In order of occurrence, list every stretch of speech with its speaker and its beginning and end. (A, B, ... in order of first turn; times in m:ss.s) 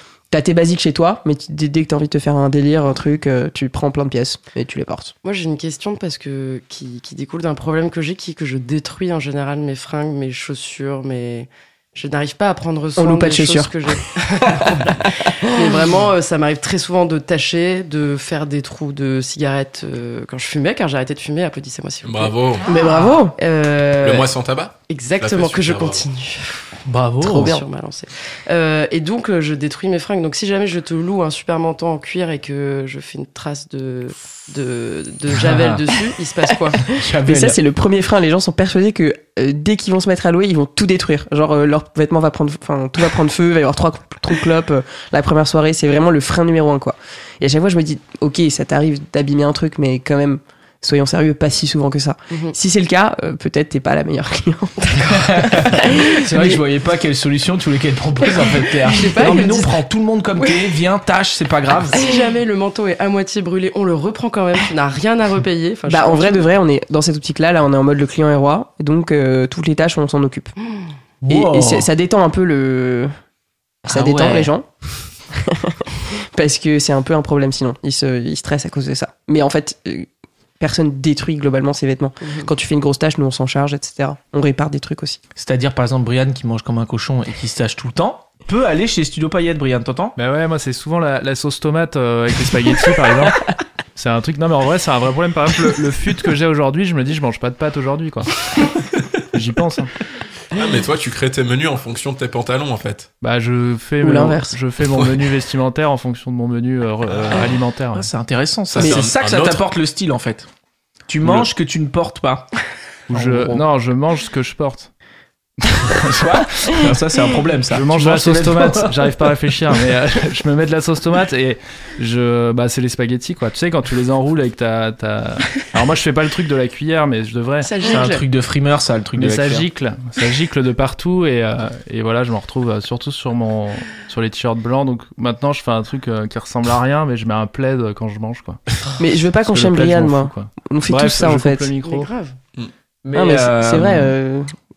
0:00.3-0:05.1 A
0:05.2-0:24.3 B
0:13.0-0:13.7 A
0:22.0-0:22.7 C
0:22.6-0:23.4 A
0:24.0-0:26.0 C
0:24.9-0:36.9 B
0:26.8-0:27.5 D
0:27.2-0:27.6 A
0:35.4-0:35.8 D
0:36.8-0:37.6 D
0:37.2-0:55.0 A
0:54.8-0:55.5 B
0:55.1-1:02.0 D
0:55.7-0:56.6 A
0:58.3-0:59.8 B
1:01.9-1:06.5 B
1:05.9-1:10.5 A
1:11.2-1:11.9 D
1:11.3-1:13.1 A
1:13.8-1:14.7 A
1:13.9-1:14.5 D
1:15.3-1:20.1 A
1:20.6-1:25.2 A
1:22.2-1:22.5 B
1:25.4-1:30.2 D
1:30.2-1:38.5 E
1:39.3-1:39.9 E
1:40.5-1:43.1 C
1:43.2-1:48.1 E
1:44.0-1:44.6 A
1:47.9-1:50.5 D
1:48.7-1:49.7 C
1:48.8-1:49.0 A
1:51.1-1:52.6 D
1:53.1-1:54.9 E
1:53.1-1:53.6 D
1:55.7-1:57.0 E
1:56.0-1:59.0 D
1:57.7-2:07.7 E
2:07.6-2:08.2 B
2:07.8-2:09.6 D
2:09.2-2:18.6 E
2:19.0-2:21.7 A
2:19.4-2:22.1 E
2:21.8-2:22.4 B
2:23.0-2:24.1 D
2:23.1-2:24.6 A